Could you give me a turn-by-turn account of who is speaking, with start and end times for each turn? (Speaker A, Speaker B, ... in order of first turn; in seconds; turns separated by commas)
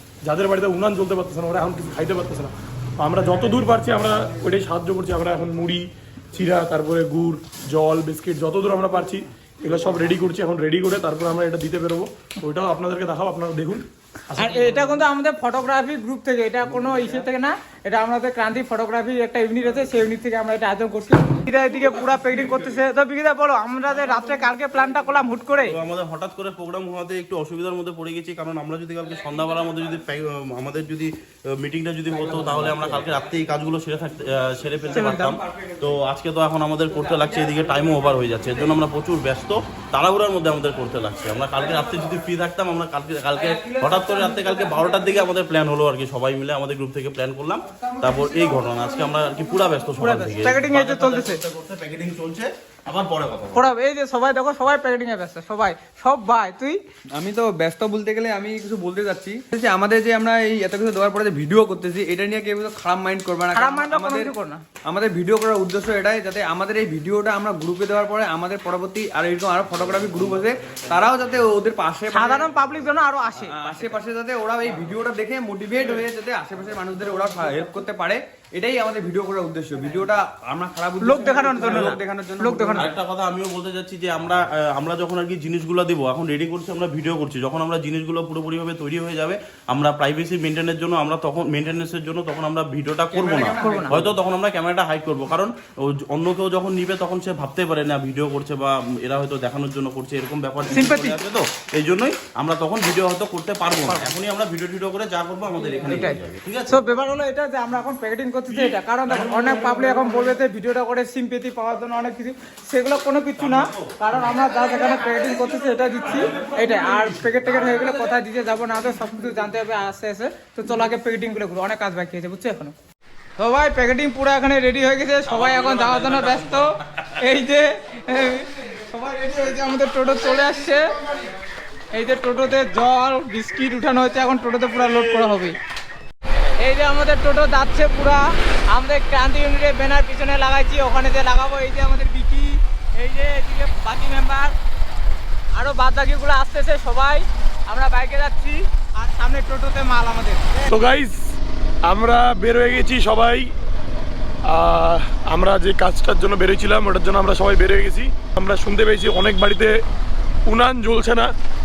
Speaker A: 0.3-14.9, Speaker B: 14.4-25.8, Speaker C: 25.6-53.7, Speaker B: 34.9-35.4, Speaker B: 50.0-51.4, Speaker B: 53.5-56.8, Speaker D: 57.2-64.3, Speaker B: 63.5-64.6, Speaker D: 64.9-72.5, Speaker B: 72.1-73.7, Speaker D: 73.5-82.9, Speaker B: 81.0-82.9, Speaker C: 82.8-106.8, Speaker D: 93.3-93.8, Speaker B: 93.6-94.0, Speaker B: 100.7-101.2, Speaker B: 105.8-106.2, Speaker B: 106.7-122.8, Speaker C: 113.6-113.9, Speaker B: 123.4-130.9, Speaker B: 131.9-135.6, Speaker B: 136.6-144.6, Speaker B: 145.6-150.5, Speaker A: 150.7-151.4, Speaker A: 151.9-153.5, Speaker A: 154.5-159.8, Speaker A: 160.5-161.3